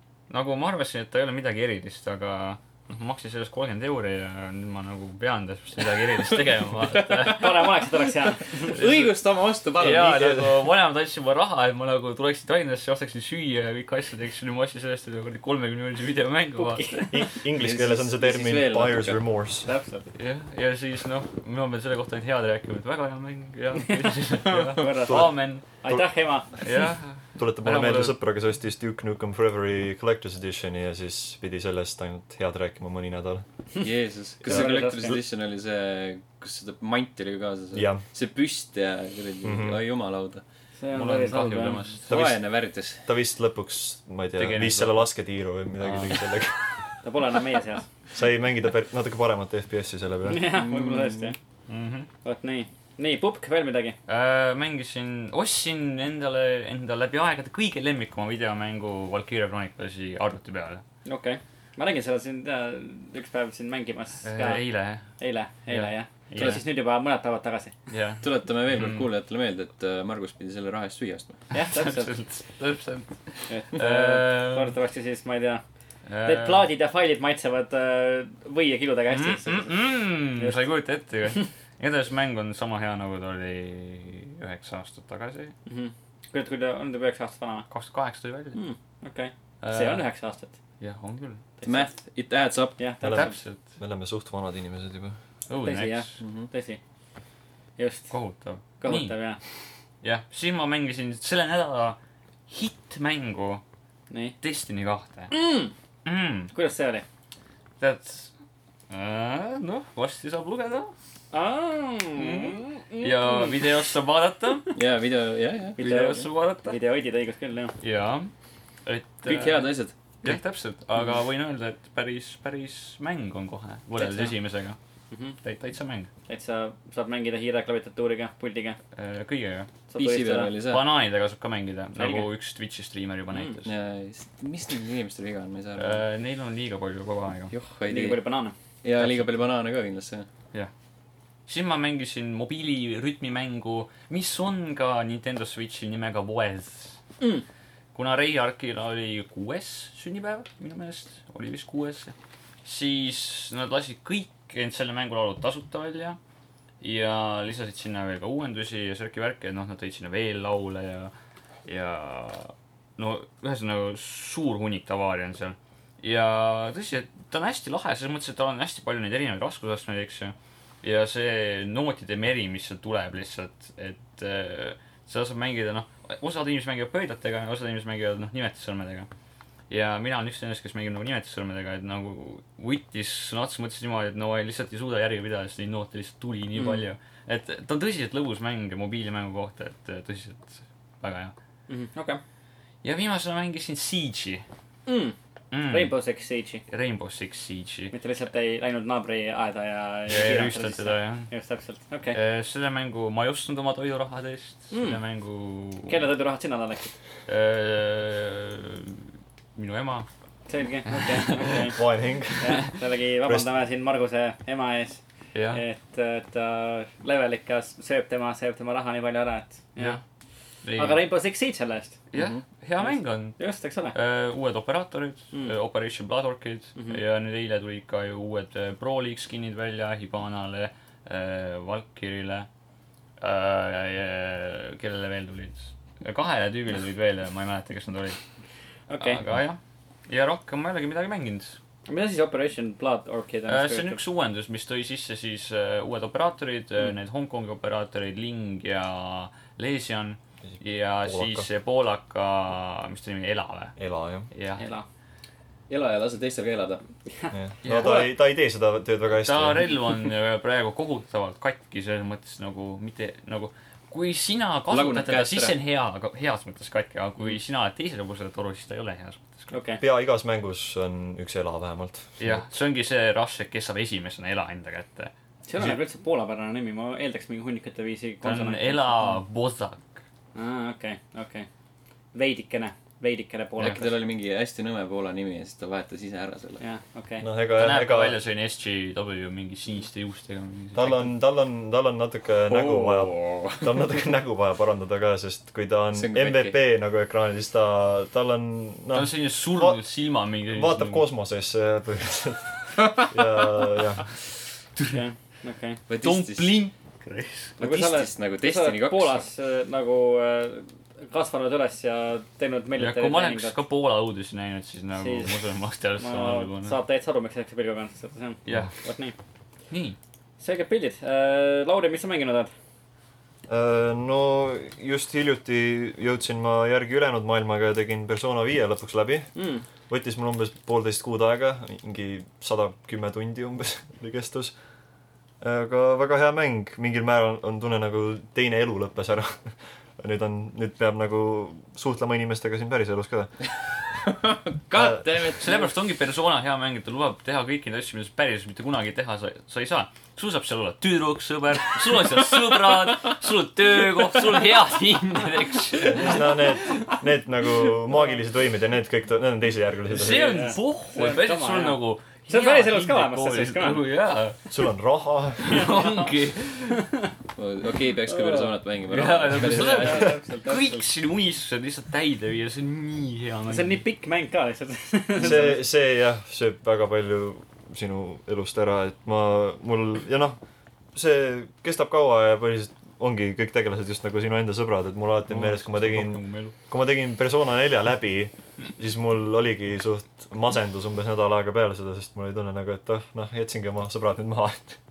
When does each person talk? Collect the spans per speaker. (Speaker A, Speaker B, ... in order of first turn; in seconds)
Speaker A: 0.3-7.6, 8.8-9.1, 9.8-17.1, 20.2-25.6, 26.6-28.2, 40.9-42.1, 44.4-45.1, 45.8-46.2, 51.7-52.1, 54.1-60.8, 64.2-65.1, 65.7-66.6, 67.9-69.1, 71.5-74.7, 76.1-76.7, 79.1-85.5, 87.7-88.6, 89.6-90.0, 90.8-91.5, 93.1-93.6, 95.5-96.2, 98.1-99.2, 100.0-102.0, 102.5-103.6, 104.4-105.3, 106.0-106.5, 107.8-108.3, 108.9-110.9, 112.2-114.7, 115.8-116.8, 117.8-118.3, 118.8-124.8, 125.4-126.1, 128.9-129.7, 130.7-133.7, 135.8-137.5, 139.0-139.3, 141.5-147.0, 147.9-152.1, 152.7-156.2, 156.8-161.1, 161.7-179.1, 179.7-191.3, 192.8-194.4, 195.5-195.9, 196.7-197.9, 200.1-201.3, 202.1-206.0, 207.3-210.1, 210.9-211.6, 215.3-215.6, 220.6-221.0, 222.1-223.4, 223.9-232.5, 233.2-238.2, 239.0-241.6, 243.5-253.8, 254.3-254.6, 257.6-258.1, 259.1-269.5, 272.2-275.1, 278.2-280.0, 287.6-291.1, 298.9-301.1, 304.8-305.0, 306.0-307.6, 312.8-316.8, 318.5-318.7, 319.7-320.0, 345.4-356.2, 359.9-364.5, 365.4-366.9, 368.9-373.8, 385.3-386.5
Speaker B: 6.8-7.6, 8.5-10.6, 17.6-19.2, 33.8-40.4, 42.1-43.0, 50.5-51.3, 68.2-71.4, 91.6-92.8, 96.2-96.5, 114.8-115.8, 119.3-120.4, 130.0-130.8, 133.7-136.0, 137.5-138.2, 138.8-140.3, 255.7-256.8, 264.7-265.6, 283.6-286.6, 292.5-293.7, 295.9-296.6, 305.9-306.6, 307.6-309.2, 344.1-345.7, 367.4-370.1
Speaker C: 7.3-8.8, 16.6-17.3, 19.7-20.1, 23.8-26.5, 34.5-35.1, 40.8-41.8, 47.0-47.9, 50.3-51.4, 52.2-54.0, 61.0-64.6, 65.2-67.7, 71.5-72.1, 73.5-75.6, 76.2-79.8, 80.4-80.6, 85.7-87.7, 88.5-90.5, 91.6-91.9, 92.8-93.4, 95.6-96.8, 97.8-98.1, 98.8-99.4, 104.1-104.3, 105.3-105.7, 106.5-107.0, 111.3-113.7, 115.8-117.8, 124.0-124.3, 125.1-125.4, 126.3-128.8, 129.9-130.5, 132.0-132.3, 133.3-133.6, 137.9-138.6, 186.6-186.8, 191.7-192.2, 194.9-195.2, 195.7-196.6, 197.9-202.2, 204.7-205.0, 205.9-206.9, 210.5-211.8, 212.4-220.0, 220.8-222.0, 222.8-223.9, 238.9-239.2, 241.9-244.0, 254.6-254.8, 269.5-269.8, 275.5-279.0, 280.4-281.5, 282.1-283.9, 286.6-287.3, 304.9-305.8, 307.6-313.6, 315.0-315.4, 316.0-319.1, 320.4-322.5, 329.4-329.6, 360.0-363.8, 365.6-366.0, 368.1-368.5, 369.4-370.9, 373.5-375.6
Speaker D: 17.1-19.7, 25.1-26.0, 27.4-33.5, 34.4-35.2, 37.7-38.0, 39.4-39.8, 42.1-42.4, 43.0-46.8, 48.1-50.5, 93.0-95.2, 211.4-212.7, 251.1-251.5, 253.8-254.3, 257.3-259.8, 269.8-272.3, 287.2-288.2, 290.8-299.8, 300.5-304.1, 323.5-329.3, 329.9-334.5, 335.4-343.3, 344.8-345.0, 355.9-360.5, 364.5-365.7, 375.2-380.4, 380.9-394.8